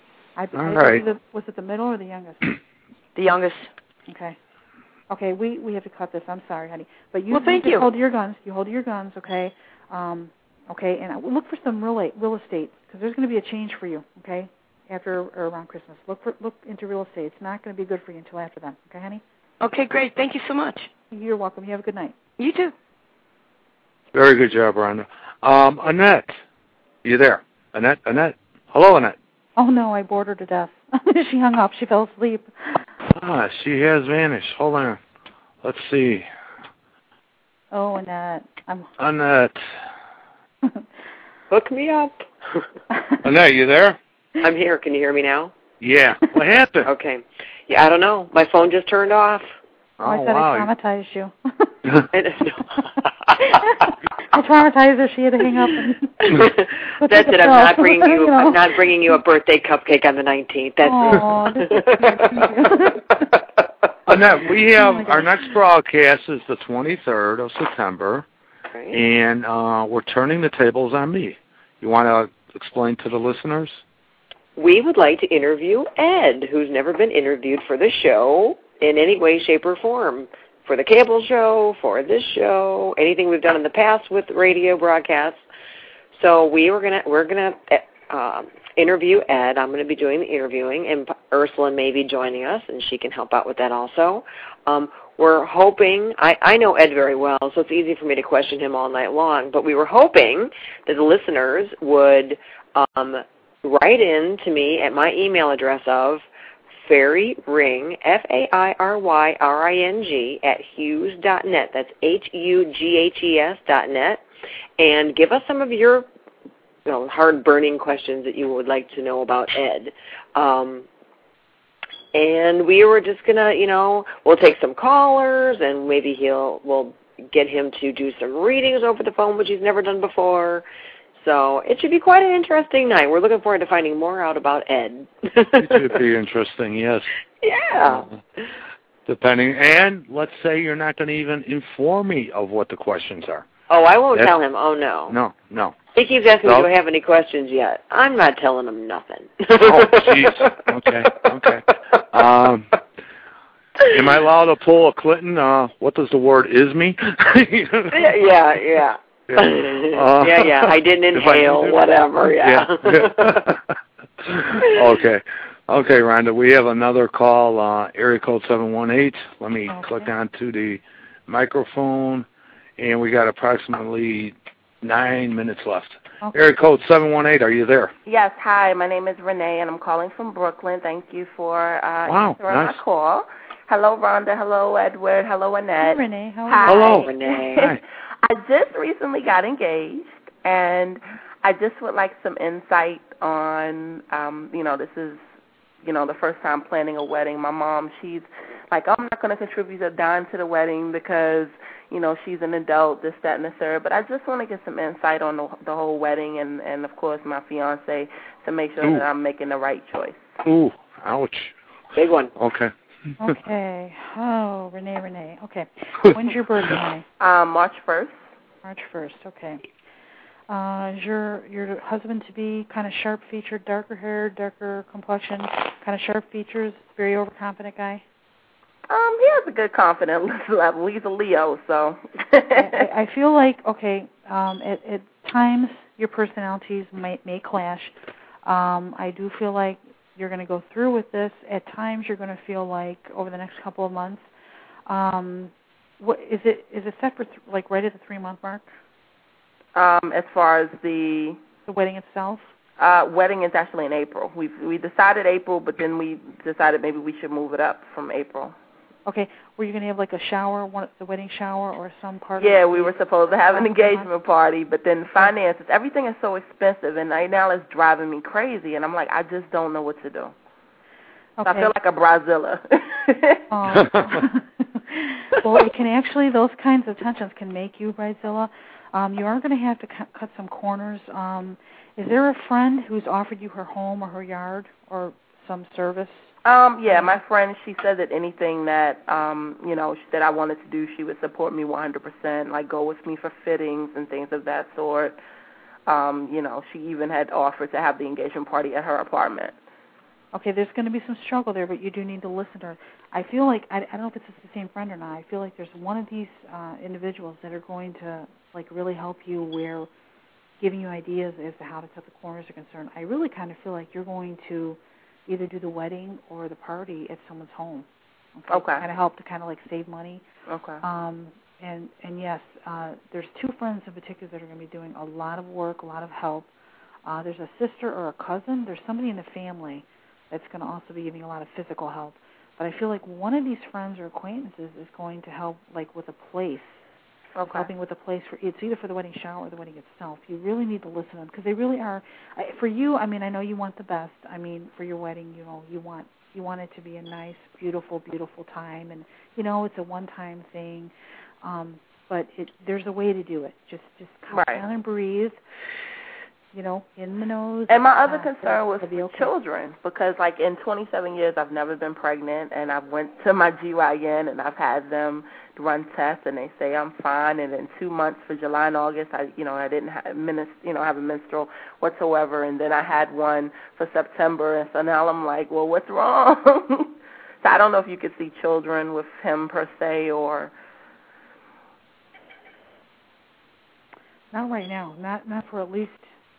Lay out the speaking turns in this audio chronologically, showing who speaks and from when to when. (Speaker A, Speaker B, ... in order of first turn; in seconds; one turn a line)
Speaker A: 0.4-2.5
Speaker B: 0.6-1.0
Speaker C: 3.2-3.7
Speaker A: 4.1-4.4
Speaker A: 5.1-19.2
Speaker C: 7.3-7.9
Speaker C: 19.6-20.9
Speaker A: 21.1-22.1
Speaker C: 22.4-22.7
Speaker B: 24.1-26.4
Speaker B: 27.0-29.2
Speaker A: 29.6-32.8
Speaker B: 33.1-35.0
Speaker B: 35.6-36.3
Speaker A: 37.7-38.9
Speaker B: 39.0-39.6
Speaker D: 41.5-42.2
Speaker A: 42.9-43.2
Speaker B: 43.2-44.0
Speaker D: 44.4-45.5
Speaker B: 45.8-46.9
Speaker D: 46.8-49.5
Speaker B: 50.0-50.7
Speaker A: 50.0-51.7
Speaker D: 52.1-52.9
Speaker A: 53.4-56.3
Speaker D: 56.2-62.5
Speaker A: 57.0-59.2
Speaker A: 60.8-63.3
Speaker B: 64.1-68.3
Speaker A: 64.7-65.4
Speaker B: 68.9-73.8
Speaker D: 74.6-85.4
Speaker D: 86.2-106.2
Speaker D: 106.8-114.2
Speaker D: 114.8-116.1
Speaker D: 116.9-120.9
Speaker D: 122.1-130.6
Speaker D: 131.2-135.9
Speaker B: 135.6-137.1
Speaker D: 137.4-138.4
Speaker B: 137.8-138.1
Speaker B: 139.1-143.5
Speaker D: 143.7-145.2
Speaker B: 145.1-145.8
Speaker D: 145.9-150.7
Speaker B: 146.4-146.7
Speaker B: 149.6-152.7
Speaker B: 153.8-158.1
Speaker D: 157.9-163.4
Speaker B: 159.3-163.6
Speaker B: 164.2-172.3
Speaker A: 169.7-170.1
Speaker B: 172.8-177.9
Speaker E: 178.1-195.2
Speaker B: 182.1-182.8
Speaker A: 185.8-187.0
Speaker B: 186.7-187.8
Speaker D: 186.7-187.7
Speaker E: 195.8-210.3
Speaker B: 210.4-211.5
Speaker D: 211.9-212.3
Speaker B: 212.4-213.3
Speaker A: 213.2-217.1
Speaker E: 217.2-218.2
Speaker A: 218.6-219.6
Speaker A: 220.5-228.0
Speaker E: 228.9-232.8
Speaker A: 232.6-237.9
Speaker A: 238.4-244.2
Speaker A: 244.9-248.7
Speaker E: 249.8-251.4
Speaker A: 251.7-252.4
Speaker E: 252.8-258.6
Speaker A: 259.1-264.1
Speaker E: 262.4-270.3
Speaker A: 271.4-271.7
Speaker E: 271.4-273.4
Speaker A: 273.5-286.3
Speaker B: 273.7-274.2
Speaker E: 286.4-295.2
Speaker A: 286.9-287.2
Speaker E: 295.9-299.6
Speaker A: 300.3-309.9
Speaker A: 310.6-320.2
Speaker E: 318.5-318.8
Speaker E: 320.5-320.8
Speaker A: 320.8-326.5
Speaker A: 327.1-336.8
Speaker E: 337.4-337.7
Speaker A: 337.5-350.9
Speaker A: 351.4-355.4
Speaker E: 354.3-354.6
Speaker A: 356.5-359.3
Speaker E: 357.7-380.5
Speaker A: 384.3-386.1